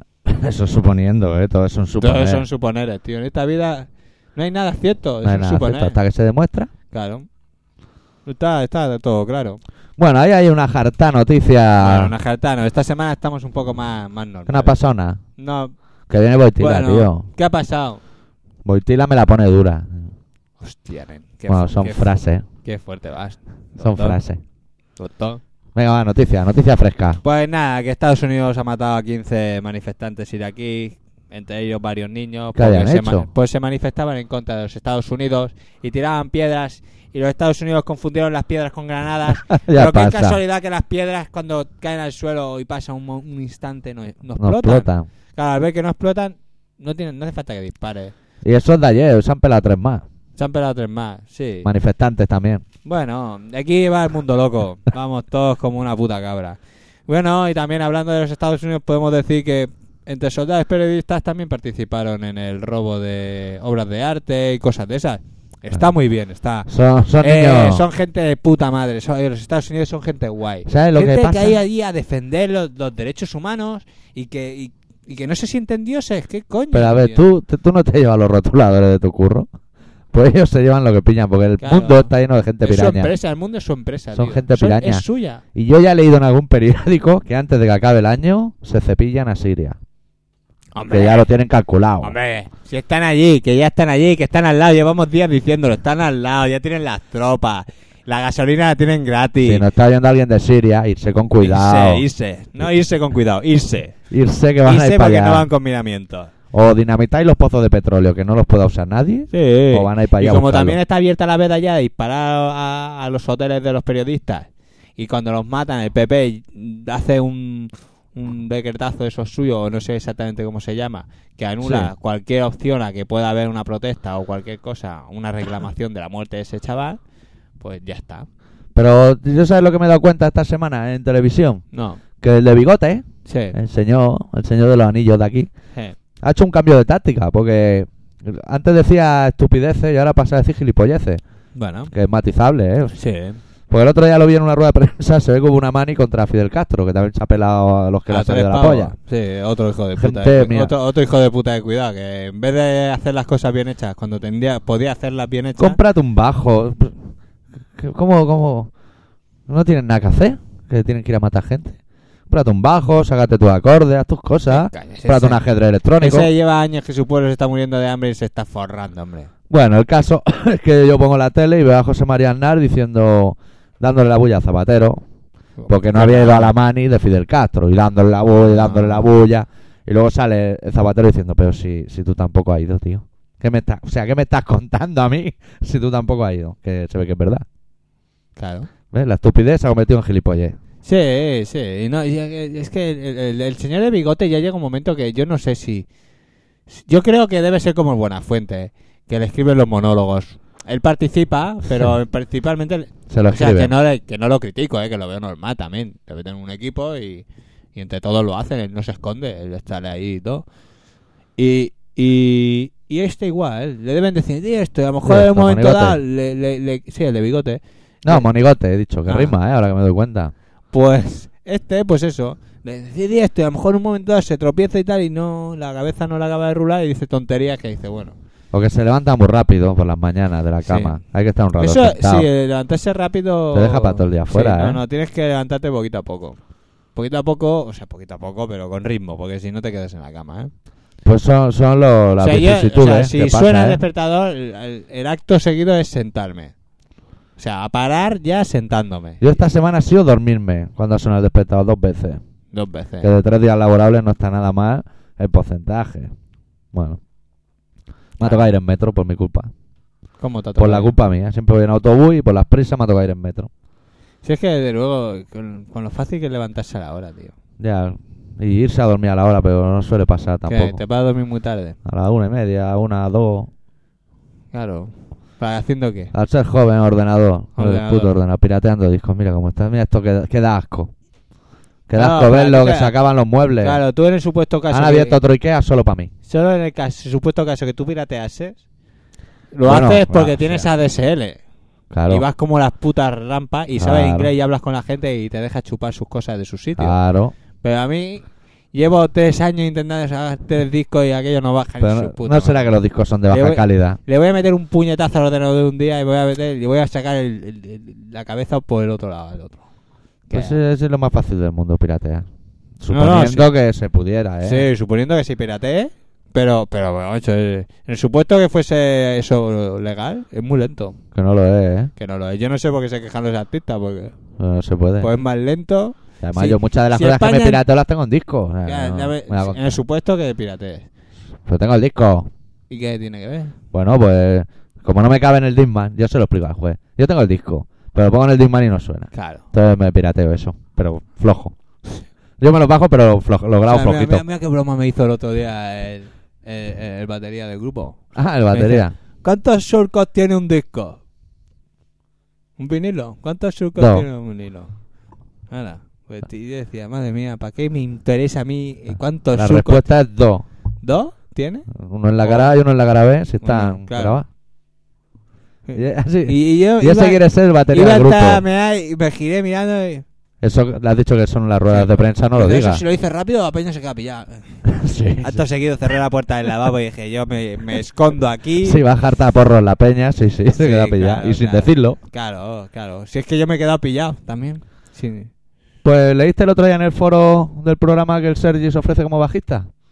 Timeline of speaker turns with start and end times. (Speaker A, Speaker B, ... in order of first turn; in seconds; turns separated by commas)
Speaker A: 0.3-2.5, Speaker B: 2.0-6.0, Speaker A: 5.2-6.7, Speaker B: 6.9-7.3, Speaker B: 8.2-9.6, Speaker A: 10.0-12.1, Speaker B: 11.8-14.8, Speaker A: 14.5-15.2, Speaker B: 15.4-15.7, Speaker A: 16.1-17.3, Speaker B: 16.6-18.0, Speaker A: 18.6-20.1, Speaker B: 20.6-24.2, Speaker A: 21.5-22.4, Speaker A: 23.8-24.4, Speaker B: 25.0-25.4, Speaker A: 25.8-27.2, Speaker B: 27.2-48.1, Speaker A: 32.5-33.3, Speaker A: 39.5-40.4, Speaker A: 44.4-45.1, Speaker A: 48.4-50.0, Speaker B: 50.4-51.7, Speaker A: 51.6-52.6, Speaker B: 52.9-77.2, Speaker A: 66.7-67.9, Speaker A: 70.7-71.6, Speaker A: 76.7-79.5, Speaker A: 80.1-83.1, Speaker B: 81.6-82.1, Speaker B: 82.6-85.4, Speaker A: 84.1-89.8, Speaker B: 90.7-91.3, Speaker A: 90.9-92.2, Speaker B: 92.0-99.7, Speaker A: 99.4-102.0, Speaker B: 101.4-104.0, Speaker A: 104.1-105.5, Speaker B: 104.6-106.3, Speaker A: 106.5-110.8, Speaker B: 109.3-127.0, Speaker A: 121.6-121.9, Speaker B: 127.6-128.3, Speaker A: 128.8-131.7, Speaker B: 131.7-132.0, Speaker A: 132.2-135.5, Speaker B: 133.3-133.6, Speaker A: 136.2-141.2, Speaker B: 141.6-141.9, Speaker A: 141.9-143.0, Speaker B: 142.9-143.4, Speaker A: 143.7-148.9, Speaker B: 148.1-155.8, Speaker A: 150.0-150.7, Speaker A: 155.6-157.0, Speaker A: 157.8-158.7, Speaker A: 159.5-161.8, Speaker A: 162.3-166.3, Speaker B: 164.5-165.4, Speaker B: 166.0-169.3, Speaker A: 169.5-175.0, Speaker B: 175.6-176.5, Speaker A: 175.7-187.4, Speaker B: 178.4-179.1, Speaker B: 188.4-188.7, Speaker A: 188.9-190.6, Speaker B: 190.8-195.9, Speaker B: 196.7-210.5, Speaker A: 203.1-203.7, Speaker B: 211.4-218.3, Speaker A: 215.1-216.0, Speaker A: 218.1-220.3, Speaker B: 219.1-219.3, Speaker B: 220.7-228.2, Speaker A: 228.5-232.3, Speaker B: 230.6-231.0, Speaker B: 231.6-236.4, Speaker A: 233.5-234.8, Speaker B: 236.9-240.5, Speaker A: 241.0-243.8, Speaker B: 242.2-246.5, Speaker B: 247.4-249.4, Speaker A: 249.2-252.2, Speaker B: 252.5-253.1, Speaker A: 253.0-256.1, Speaker A: 256.7-257.0, Speaker A: 258.2-259.5, Speaker B: 260.2-260.9, Speaker A: 260.6-263.5, Speaker B: 264.2-267.3, Speaker A: 267.6-270.8, Speaker B: 270.5-271.8, Speaker A: 271.9-273.5, Speaker B: 274.5-276.1, Speaker A: 276.1-280.9, Speaker B: 277.6-278.2, Speaker A: 281.9-283.8, Speaker B: 281.9-283.0, Speaker B: 283.6-285.2, Speaker A: 284.7-286.1, Speaker B: 286.3-288.6, Speaker B: 289.5-291.4, Speaker A: 289.6-290.7, Speaker A: 291.9-292.2, Speaker B: 292.1-297.0, Speaker A: 293.8-294.3, Speaker A: 296.8-297.3, Speaker B: 297.6-302.7, Speaker A: 301.8-304.0, Speaker B: 303.3-309.6, Speaker B: 310.3-310.6, Speaker A: 310.3-312.3, Speaker A: 312.8-314.7, Speaker B: 312.9-313.5, Speaker B: 314.4-321.0, Speaker A: 321.1-321.9, Speaker B: 322.0-324.1, Speaker A: 324.4-325.1, Speaker B: 325.0-327.6, Speaker A: 326.2-329.8, Speaker B: 328.6-330.9, Speaker A: 331.4-332.3, Speaker B: 332.7-333.6, Speaker A: 333.7-341.6, Speaker B: 339.1-339.4, Speaker A: 342.4-344.2, Speaker B: 343.7-348.0, Speaker A: 348.1-348.9, Speaker B: 348.5-351.0, Speaker B: 352.6-354.7, Speaker A: 353.8-354.1, Speaker B: 355.5-359.9, Speaker A: 359.4-360.4, Speaker B: 360.8-361.7, Speaker A: 361.7-364.3, Speaker B: 362.2-362.5, Speaker B: 363.4-364.2, Speaker B: 365.7-370.1, Speaker A: 365.8-368.4, Speaker A: 370.4-372.8, Speaker B: 371.7-374.7, Speaker A: 374.7-375.4, Speaker B: 375.2-378.8, Speaker A: 378.6-382.0, Speaker B: 380.6-385.3, Speaker A: 385.8-389.7